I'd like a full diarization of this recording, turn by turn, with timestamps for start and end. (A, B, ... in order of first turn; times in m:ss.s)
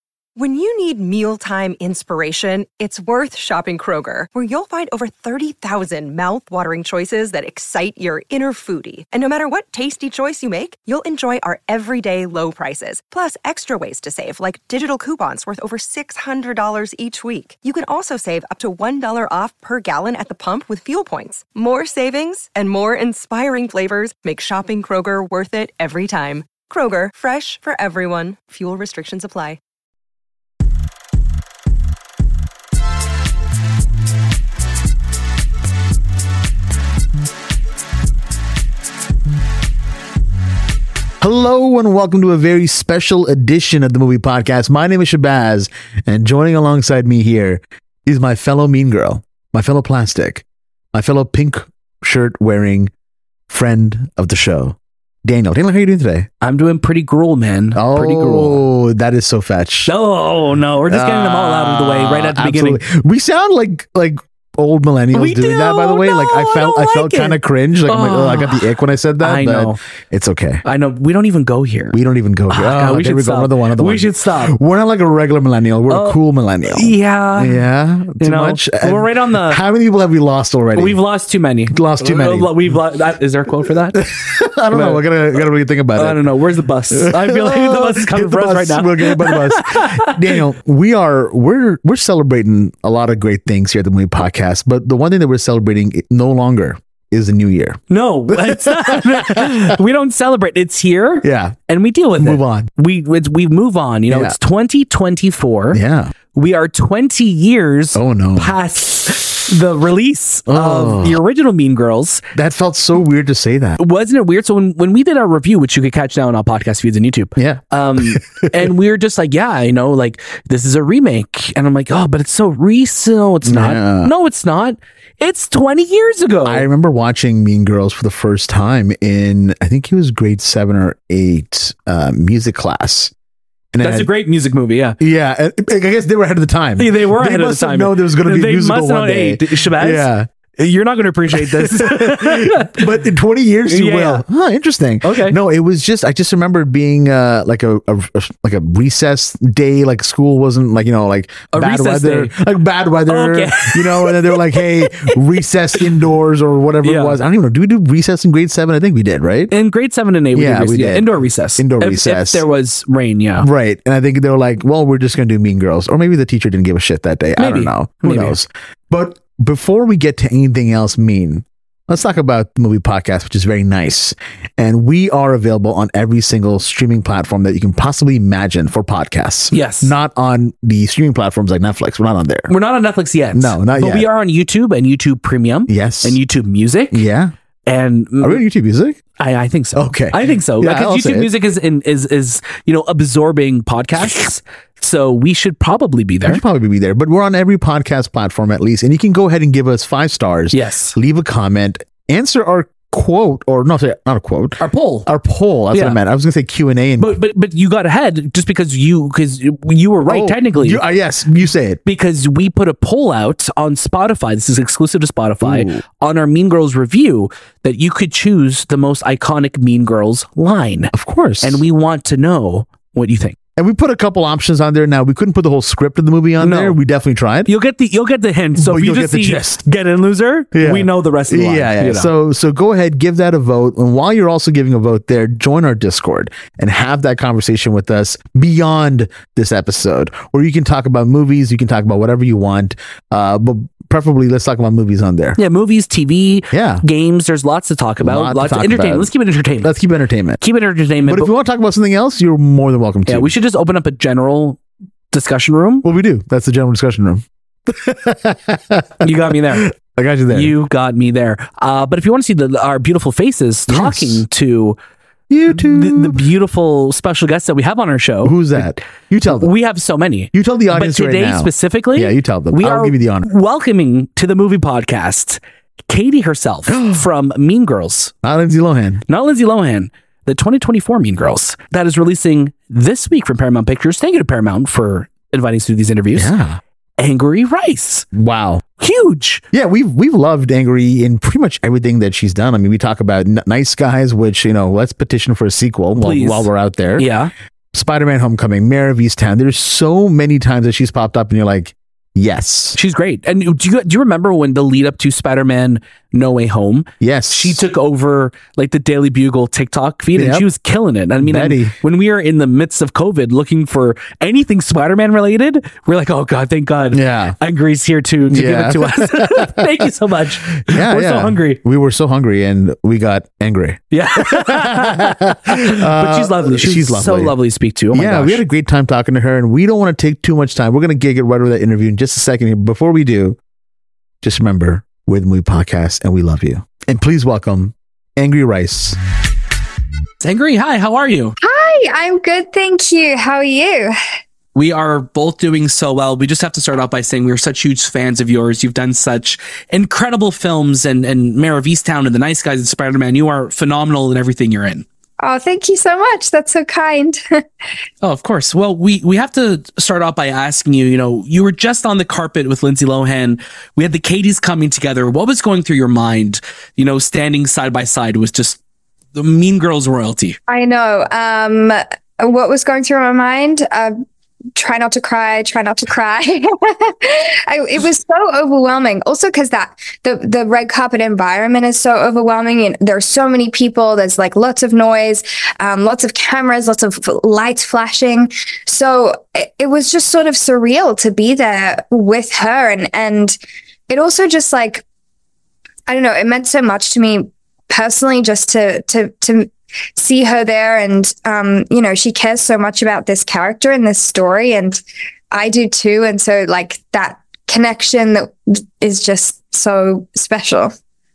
0:00.4-0:29.6 A
0:41.2-0:52.9 B
0:53.5-0:56.3 B
0:56.4-0:58.7 C
0:57.7-0:59.9 B
0:59.8-1:02.8 C
1:00.9-1:10.6 B
1:05.1-1:09.8 C
1:10.6-1:12.0 C
1:11.9-1:21.0 B
1:12.5-1:14.6 C
1:15.9-1:17.7 C
1:18.2-1:19.6 C
1:20.7-1:24.0 C
1:21.7-1:22.8 B
1:23.9-1:26.2 B
1:24.7-1:25.0 C
1:25.9-1:30.4 C
1:26.9-1:39.7 B
1:37.9-1:45.8 C
1:41.2-1:41.6 B
1:42.2-1:42.7 B
1:44.1-1:44.4 B
1:45.7-1:46.1 B
1:46.3-1:52.2 C
1:47.9-1:48.5 B
1:50.5-1:51.2 B
1:52.3-1:53.8 B
1:53.8-2:06.7 C
1:57.4-1:58.6 B
2:03.4-2:04.1 B
2:06.4-2:13.1 B
2:13.7-2:14.1 B
2:13.8-2:15.0 C
2:15.0-2:20.3 B
2:16.8-2:22.9 C
2:21.3-2:39.5 B
2:23.7-2:24.2 C
2:25.0-2:25.4 C
2:31.5-2:32.3 C
2:33.1-2:35.2 C
2:36.8-2:37.2 C
2:39.5-2:43.5 C
2:40.3-2:42.4 B
2:43.4-3:02.5 B
2:47.4-2:48.4 C
2:59.5-3:00.0 C
3:02.5-3:07.0 C
3:03.3-3:04.1 B
3:05.7-3:06.2 B
3:06.9-3:07.3 B
3:07.6-3:08.4 C
3:08.2-3:09.0 B
3:09.2-3:16.4 C
3:09.8-3:11.3 B
3:16.2-3:27.2 B
3:20.5-3:21.0 C
3:24.6-3:25.0 C
3:25.7-3:26.0 C
3:27.0-3:30.8 C
3:30.0-3:31.8 B
3:31.8-3:43.4 C
3:35.4-3:35.8 B
3:40.9-3:41.6 B
3:43.6-3:47.5 B
3:46.4-3:46.8 C
3:47.4-3:52.1 C
3:48.6-3:49.6 B
3:50.5-4:05.4 B
4:05.4-4:09.7 C
4:06.5-4:06.8 B
4:08.0-4:10.4 B
4:10.4-4:11.3 C
4:11.0-4:13.3 B
4:13.1-4:14.6 C
4:15.1-4:15.8 C
4:15.8-4:20.6 B
4:19.0-4:19.7 C
4:20.3-4:24.8 C
4:23.7-4:24.2 B
4:25.3-4:26.2 B
4:25.5-4:28.4 C
4:28.2-4:29.5 B
4:29.3-4:38.1 C
4:30.3-4:33.2 B
4:36.7-4:37.1 B
4:38.2-4:39.0 B
4:39.1-4:46.3 C
4:46.1-4:46.6 B
4:47.0-4:48.1 C
4:48.1-4:48.6 B
4:48.8-4:49.4 C
4:49.5-4:57.1 B
4:56.0-4:57.3 C
4:57.7-5:02.8 B
5:02.7-5:21.6 C
5:07.0-5:07.6 B
5:10.2-5:10.5 B
5:11.2-5:11.7 B
5:16.9-5:17.4 B
5:18.3-5:19.5 B
5:20.7-5:27.3 B
5:23.9-5:28.4 C
5:27.9-5:33.4 B
5:34.2-5:39.0 B
5:40.2-5:41.4 C
5:41.4-5:43.9 D
5:44.5-5:54.8 C
5:55.2-5:57.2 D
5:58.0-6:08.6 C
6:09.1-6:10.4 C
6:10.5-6:13.9 D
6:14.6-6:33.4 D
6:33.9-6:34.8 D
6:35.9-6:44.8 D
6:45.3-6:50.7 D